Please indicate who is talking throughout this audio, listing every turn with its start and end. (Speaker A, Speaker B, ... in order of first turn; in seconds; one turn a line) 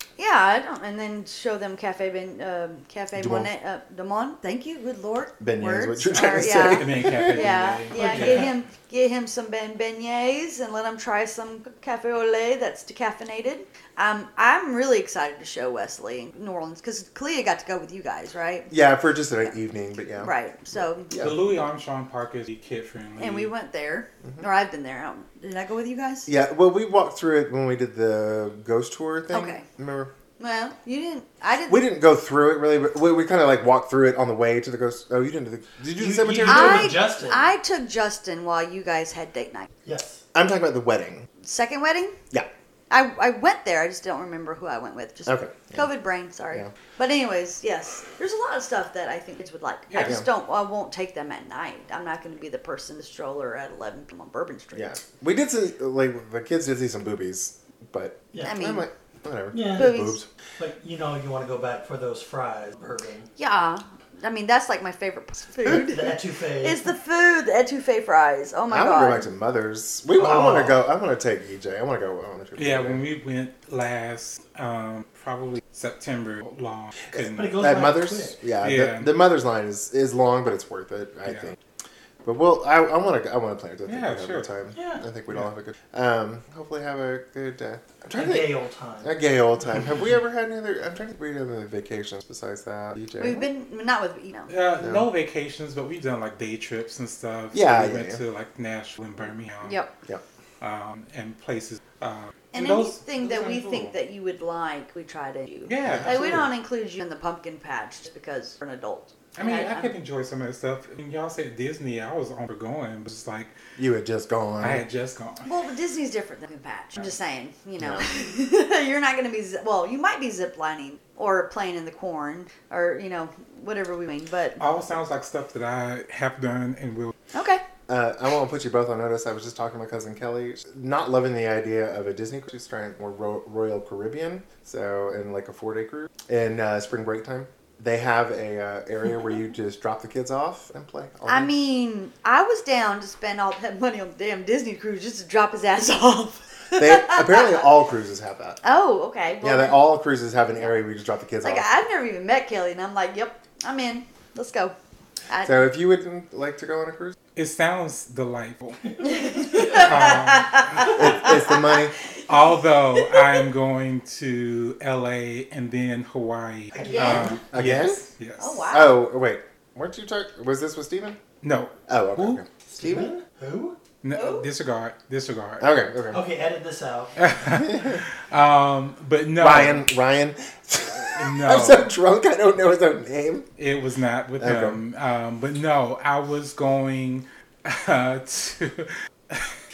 Speaker A: 0.2-18.7
Speaker B: 3.1-3.5
Speaker B: 5.4-7.5
Speaker C: 6.3-8.5
Speaker D: 7.9-8.5
Speaker B: 18.7-21.4
Speaker A: 20.2-21.2
Speaker C: 21.2-23.5
Speaker A: 23.2-26.3
Speaker B: 26.3-30.1
Speaker A: 29.3-29.6
Speaker A: 30.4-31.8
Speaker B: 31.7-37.0
Speaker D: 36.0-37.5
Speaker A: 36.4-39.7
Speaker D: 39.8-40.2
Speaker B: 40.3-41.3
Speaker A: 41.4-42.2
Speaker A: 42.9-54.9
Speaker B: 45.2-45.9
Speaker C: 49.9-50.2
Speaker B: 50.0-50.3
Speaker B: 54.7-60.3
Speaker A: 58.4-58.8
Speaker D: 59.5-63.3
Speaker A: 59.7-60.2
Speaker A: 63.4-69.3
Speaker D: 65.7-66.9
Speaker B: 68.7-73.0
Speaker D: 70.1-70.8
Speaker C: 72.6-77.6
Speaker D: 77.1-78.4
Speaker B: 77.6-81.6
Speaker C: 78.6-79.1
Speaker C: 81.2-81.5
Speaker B: 82.2-93.5
Speaker C: 83.9-84.5
Speaker D: 84.7-85.0
Speaker D: 88.1-89.1
Speaker A: 93.2-94.5
Speaker C: 94.5-99.8
Speaker B: 94.8-95.1
Speaker B: 97.5-98.2
Speaker A: 99.6-100.0
Speaker C: 100.6-103.9
Speaker A: 102.5-109.9
Speaker C: 105.7-106.4
Speaker B: 105.8-106.5
Speaker C: 109.3-113.5
Speaker B: 113.8-114.8
Speaker C: 114.6-115.5
Speaker A: 115.4-124.6
Speaker B: 117.8-118.0
Speaker C: 124.6-127.1
Speaker A: 127.3-127.6
Speaker B: 127.9-141.5
Speaker A: 141.2-147.6
Speaker B: 146.7-148.6
Speaker A: 148.6-149.8
Speaker B: 149.4-151.7
Speaker A: 151.4-154.7
Speaker A: 155.3-155.7
Speaker B: 155.4-157.1
Speaker C: 157.3-161.0
Speaker A: 159.0-161.7
Speaker B: 160.8-161.9
Speaker C: 162.3-168.6
Speaker A: 162.3-163.4
Speaker D: 166.7-167.4
Speaker A: 166.8-167.4
Speaker B: 167.5-168.1
Speaker A: 168.4-169.0
Speaker B: 168.7-171.2
Speaker C: 171.4-172.4
Speaker B: 171.9-173.1
Speaker D: 172.7-173.8
Speaker C: 174.0-175.7
Speaker A: 174.1-174.5
Speaker B: 175.6-176.2
Speaker D: 176.1-177.4
Speaker C: 177.2-179.8
Speaker B: 177.6-178.0
Speaker B: 179.4-183.5
Speaker C: 181.1-181.9
Speaker C: 183.6-189.5
Speaker B: 184.4-184.8